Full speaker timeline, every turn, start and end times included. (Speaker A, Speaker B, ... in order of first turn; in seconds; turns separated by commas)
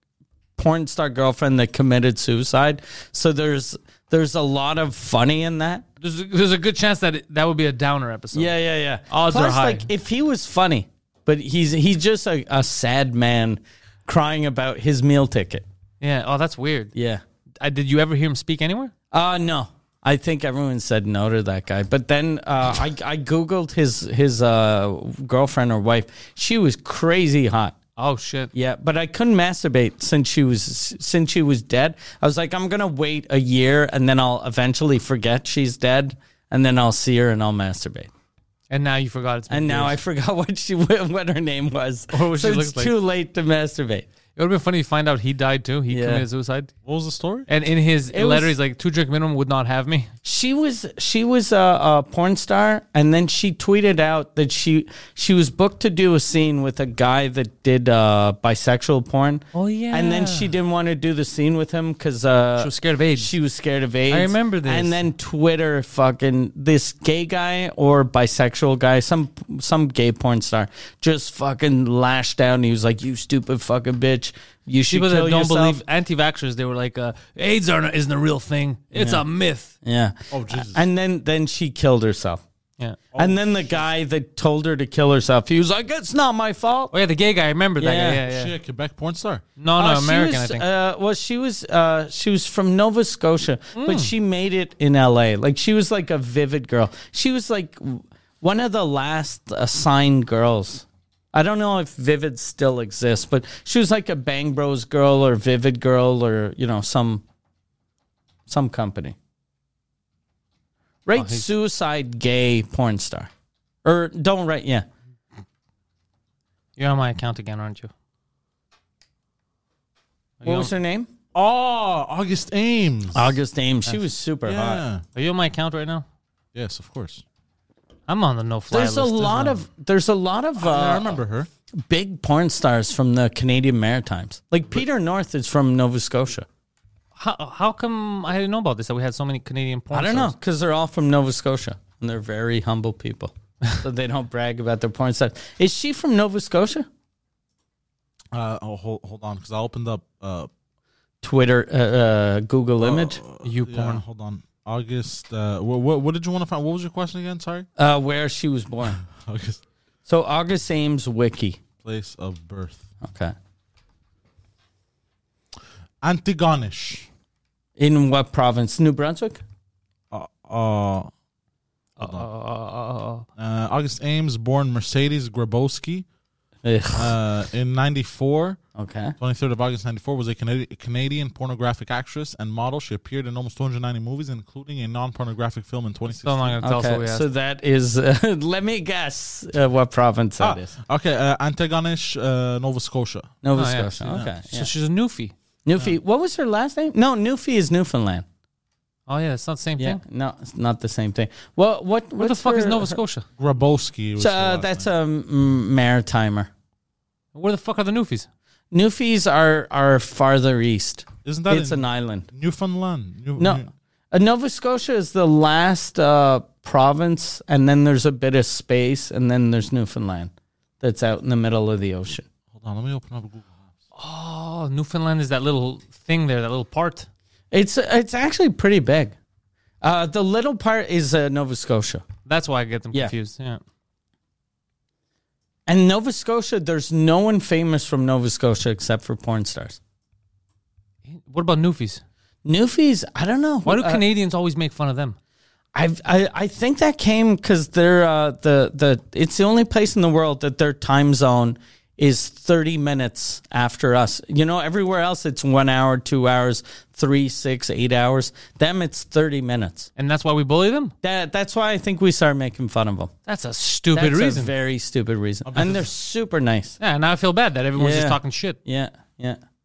Speaker A: 0.6-5.8, Speaker B: 6.0-8.5, Speaker A: 8.3-15.6, Speaker B: 9.1-9.9, Speaker B: 16.0-16.9, Speaker A: 16.9-17.2, Speaker B: 17.6-18.9, Speaker A: 19.1-27.8, Speaker B: 28.0-28.5, Speaker A: 28.5-38.1, Speaker B: 38.7-40.0, Speaker A: 39.5-44.0, Speaker B: 42.1-42.9, Speaker B: 44.4-46.7, Speaker A: 45.9-46.2, Speaker C: 46.8-47.5, Speaker B: 47.5-50.1, Speaker A: 48.1-48.5, Speaker A: 50.2-75.8, Speaker B: 59.5-60.5, Speaker B: 62.6-63.3, Speaker B: 64.1-65.0, Speaker B: 74.9-79.7, Speaker A: 78.9-79.2, Speaker A: 79.8-82.4, Speaker C: 80.3-80.8, Speaker C: 83.1-83.8, Speaker A: 83.2-86.9, Speaker B: 86.9-88.5, Speaker A: 87.8-88.2, Speaker C: 88.2-89.4, Speaker B: 89.6-90.6, Speaker A: 89.8-107.2, Speaker B: 93.7-94.1, Speaker A: 108.5-109.2, Speaker A: 111.0-113.3, Speaker B: 111.1-111.5, Speaker A: 113.8-114.8, Speaker B: 116.8-117.9, Speaker B: 120.4-120.7, Speaker A: 120.4-121.1, Speaker C: 121.3-123.4, Speaker A: 123.1-124.8, Speaker C: 124.5-125.0, Speaker B: 125.1-126.0, Speaker C: 126.5-127.2, Speaker B: 128.1-129.6, Speaker A: 128.7-131.2, Speaker C: 130.6-131.5, Speaker A: 131.8-136.4, Speaker B: 137.2-140.3, Speaker A: 139.9-146.9, Speaker C: 148.3-150.5, Speaker A: 151.2-153.2, Speaker C: 152.8-157.7, Speaker B: 153.4-154.0, Speaker A: 157.8-159.0, Speaker C: 159.0-159.6, Speaker A: 160.1-161.6, Speaker C: 161.8-162.8, Speaker A: 163.0-163.3, Speaker C: 166.0-167.1, Speaker A: 167.8-169.4, Speaker C: 170.1-171.1, Speaker B: 172.0-173.2, Speaker C: 172.0-172.3, Speaker C: 173.4-176.1, Speaker A: 176.6-177.1, Speaker C: 176.9-178.6, Speaker A: 178.7-179.2, Speaker C: 179.2-186.6, Speaker B: 186.2-187.3, Speaker A: 186.6-190.7, Speaker C: 190.4-193.3, Speaker A: 193.4-194.7, Speaker B: 193.6-195.3, Speaker A: 195.6-198.2, Speaker B: 199.1-200.0, Speaker A: 199.8-203.0, Speaker B: 202.2-203.2, Speaker C: 203.4-204.9, Speaker A: 204.2-206.5, Speaker B: 207.3-208.3, Speaker A: 208.7-212.3, Speaker C: 211.2-213.7, Speaker A: 213.4-222.3, Speaker C: 222.5-223.7, Speaker B: 223.9-227.1, Speaker A: 227.5-229.2, Speaker A: 229.8-232.0, Speaker B: 232.2-233.6, Speaker A: 235.7-239.8, Speaker B: 241.1-242.0, Speaker A: 242.4-244.0, Speaker B: 243.7-245.2, Speaker A: 245.7-259.9, Speaker B: 260.0-260.9, Speaker A: 261.0-263.1, Speaker B: 263.2-264.5, Speaker A: 263.9-266.8, Speaker C: 265.4-265.9, Speaker B: 266.8-268.6, Speaker A: 267.8-269.4